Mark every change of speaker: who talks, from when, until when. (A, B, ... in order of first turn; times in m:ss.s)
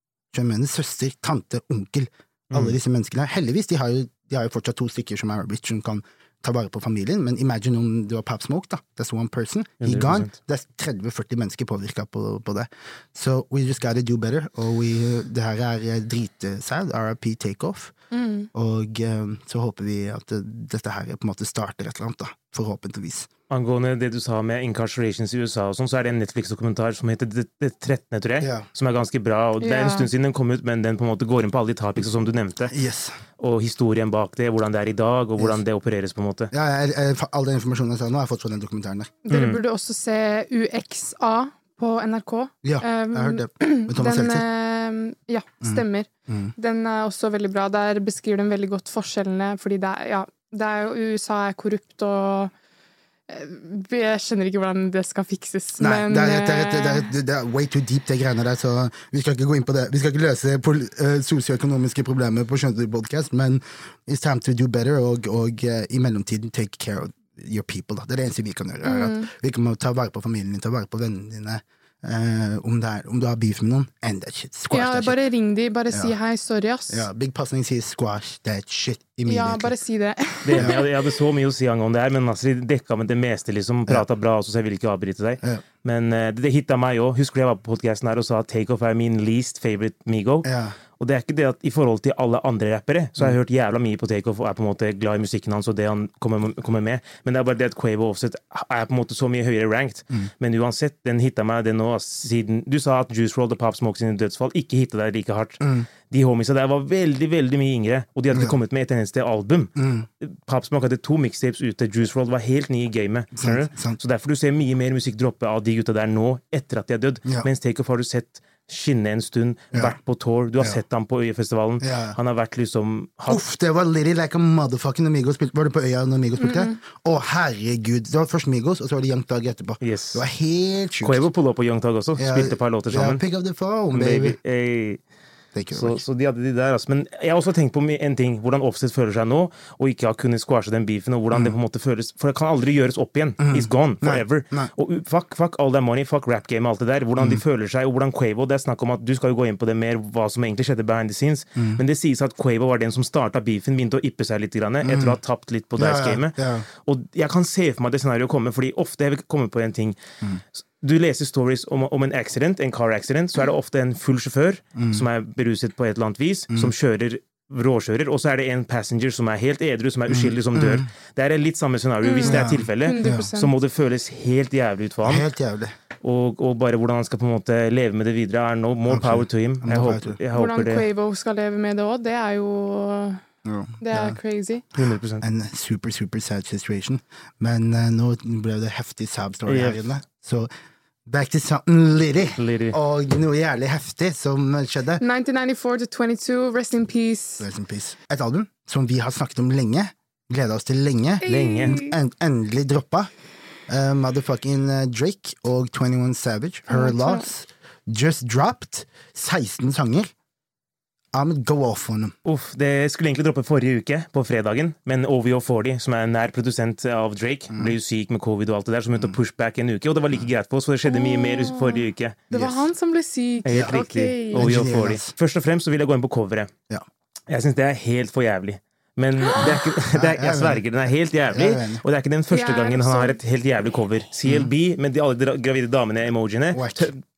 0:00.3-0:17.9 A
0:02.5-0:02.8 B
0:09.8-0:10.3 B
0:18.1-0:18.5 C
0:18.5-0:23.3 A
0:23.5-0:32.7 B
0:28.4-0:28.7 A
0:29.6-0:30.1 C
0:32.7-0:33.2 A
0:33.4-0:36.5 B
0:36.5-0:39.1 A
0:39.3-0:52.5 C
0:39.3-0:39.6 B
0:42.6-0:44.5 A
0:45.6-0:46.5 A
0:53.3-0:57.1 C
0:55.8-1:15.2 A
1:08.8-1:09.3 C
1:14.7-1:17.1 C
1:16.9-1:19.8 A
1:19.3-1:21.0 C
1:20.4-2:03.4 B
1:30.4-1:30.8 A
1:45.6-1:45.9 A
1:49.8-1:50.1 A
1:53.4-1:54.0 A
2:01.8-2:02.2 A
2:03.3-2:11.3 A
2:06.4-2:06.8 C
2:09.8-2:10.2 B
2:11.0-2:13.2 B
2:12.2-2:14.4 A
2:13.9-2:15.0 B
2:15.5-2:16.0 A
2:15.7-2:40.0 B
2:23.4-2:24.7 A
2:31.6-2:31.8 A
2:34.8-2:35.2 A
2:35.8-2:36.7 A
2:40.6-2:55.3 B
2:44.8-2:45.0 A
2:50.1-2:50.9 A
2:52.0-2:53.5 C
2:52.3-2:53.3 A
2:55.0-2:55.7 A
2:56.0-3:00.9 B
2:58.9-3:00.2 A
3:00.3-3:03.2 C
3:03.4-3:04.2 A
3:03.8-3:04.6 C
3:04.8-3:05.2 B
3:05.2-3:10.5 A
3:09.5-3:09.8 B
3:11.1-3:15.0 A
3:12.4-3:12.8 B
3:15.0-3:17.5 C
3:17.4-3:23.1 A
3:21.2-3:22.0 C
3:21.2-3:21.8 B
3:23.7-3:30.1 A
3:26.7-3:27.2 C
3:31.1-3:32.2 A
3:32.2-3:42.2 B
3:40.9-3:44.5 C
3:42.3-3:42.6 A
3:43.4-3:46.5 B
3:44.4-3:45.1 A
3:47.3-3:57.0 B
3:49.2-3:49.6 C
3:49.9-3:50.6 A
3:51.3-3:51.8 A
3:52.3-3:53.2 C
3:56.5-3:56.9 A